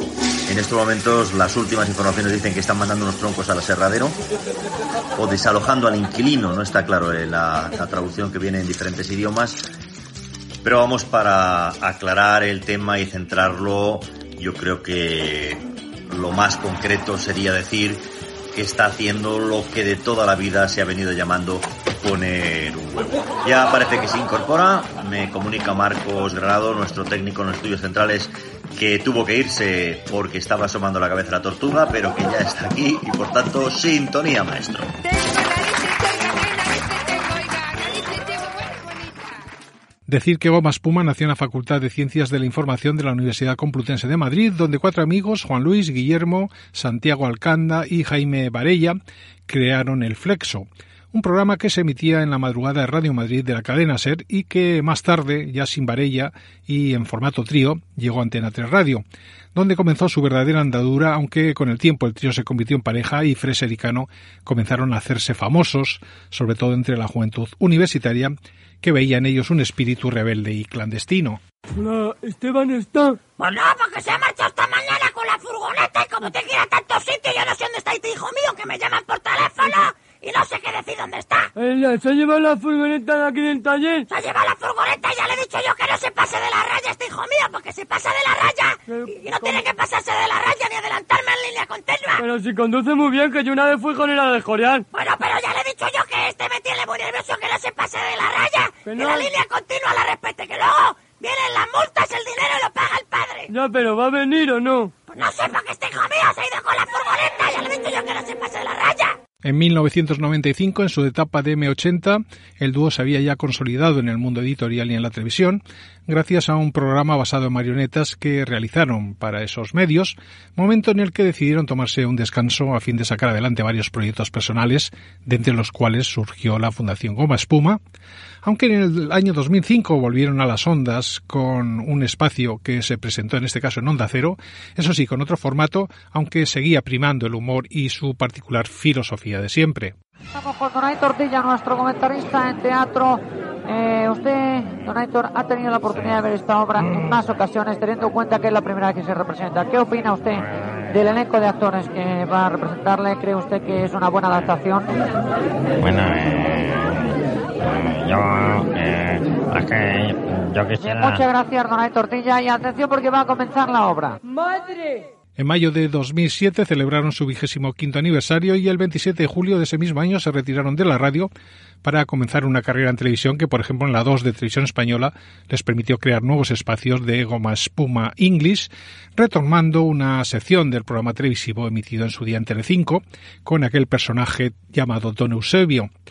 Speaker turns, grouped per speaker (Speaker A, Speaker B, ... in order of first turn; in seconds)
Speaker A: 0.5-4.2, 5.2-9.7, 10.6-34.9
Speaker B: 35.0-39.4, 140.3-154.9, 160.8-164.2
Speaker C: 40.1-49.0, 49.5-59.0, 59.5-71.4, 109.4-127.8, 128.4-139.9, 165.4-171.3, 171.8-185.9
Speaker D: 71.8-73.1, 81.8-83.9, 92.3-94.7, 103.5-104.9
Speaker E: 73.4-81.5, 84.1-92.2, 94.9-103.5, 105.1-109.1
Speaker F: 155.8-156.9, 157.6-161.2